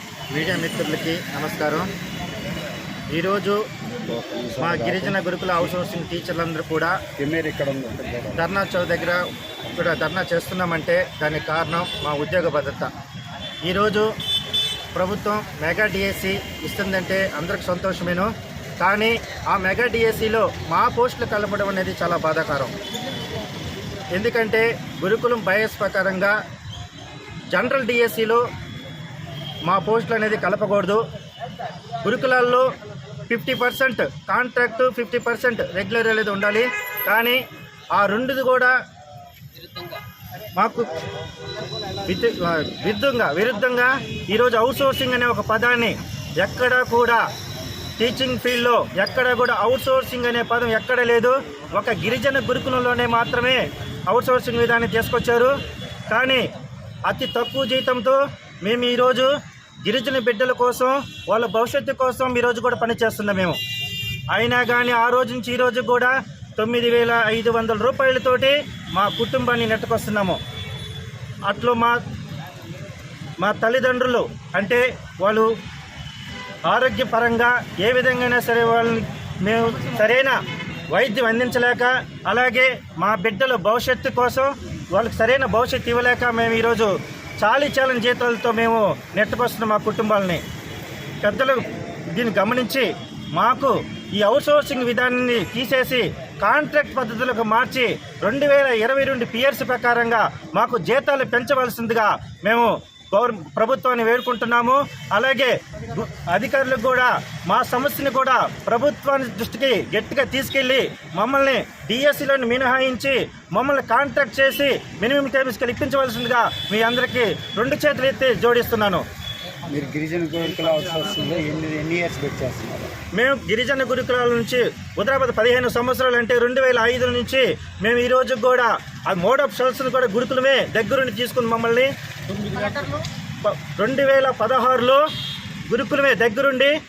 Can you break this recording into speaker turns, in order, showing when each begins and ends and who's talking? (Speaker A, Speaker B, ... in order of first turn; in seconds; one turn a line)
Speaker A: 0.3-1.9
Speaker A: 3.1-3.6
Speaker B: 4.1-5.2
Speaker A: 4.6-7.0
Speaker B: 7.2-8.4
Speaker A: 8.3-12.9
Speaker A: 13.7-14.1
Speaker A: 14.9-22.7
Speaker A: 24.1-26.4
Speaker A: 27.5-28.4
Speaker A: 29.7-31.0
Speaker A: 32.0-32.6
Speaker A: 33.3-37.4
Speaker A: 37.9-38.7
Speaker A: 40.5-40.9
Speaker A: 42.0-47.2
Speaker A: 48.0-55.5
Speaker A: 56.1-56.5
Speaker A: 57.0-59.3
Speaker A: 59.8-63.6
Speaker A: 64.3-70.4
Speaker A: 71.5-72.0
Speaker A: 73.4-75.5
Speaker A: 76.7-80.4
Speaker A: 80.9-90.4
Speaker A: 91.2-119.0
Speaker B: 119.7-122.9
Speaker A: 123.1-135.0
Speaker A: 135.7-136.7